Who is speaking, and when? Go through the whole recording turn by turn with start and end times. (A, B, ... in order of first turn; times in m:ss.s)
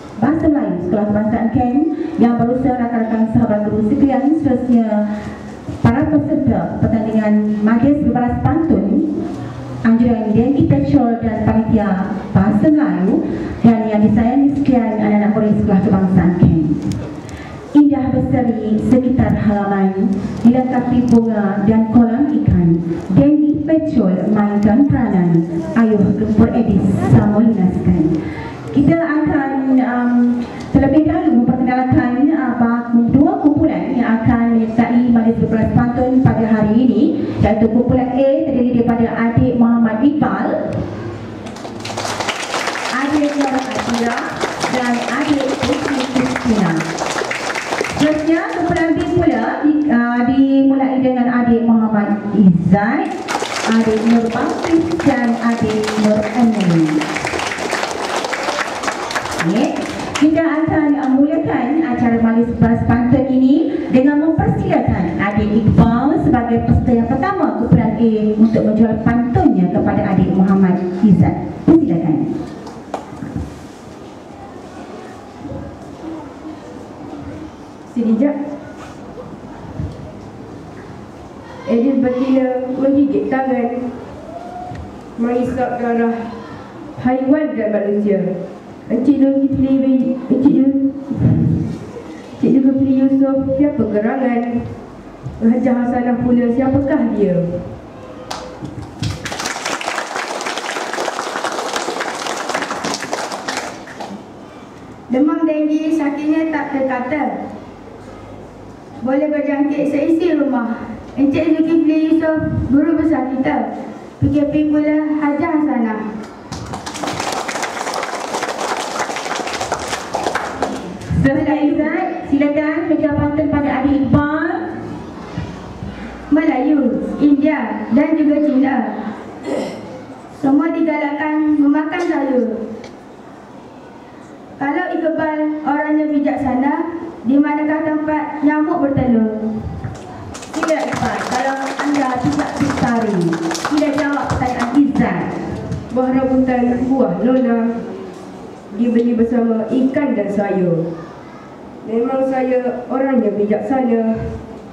0:00.2-0:05.1 A
0:05.8-0:09.1 A
0:09.8-0:16.8 A
0:17.7-0:28.2 A
0:28.7-0:40.8 A
0:42.9-0:46.8 A
0:47.9-0:53.1 A
0:53.7-0:57.0 A
0:59.4-1:12.3 A
1:17.9-1:18.3 B
1:21.6-1:23.9 B
1:25.2-1:26.3 B
1:27.0-1:28.3 B
1:28.9-1:31.6 B
1:32.4-1:34.7 B
1:35.4-1:37.7 B
1:45.1-1:47.4 C
1:49.0-1:53.6 C
1:54.2-1:56.0 C
2:01.0-2:04.7 A
2:01.3-2:01.9 C
2:06.3-2:09.0 C
2:10.4-2:12.6 C
2:14.6-2:19.4 C
2:20.5-2:25.3 A
2:25.9-2:27.8 B
2:28.7-2:30.9 B
2:31.8-2:34.4 B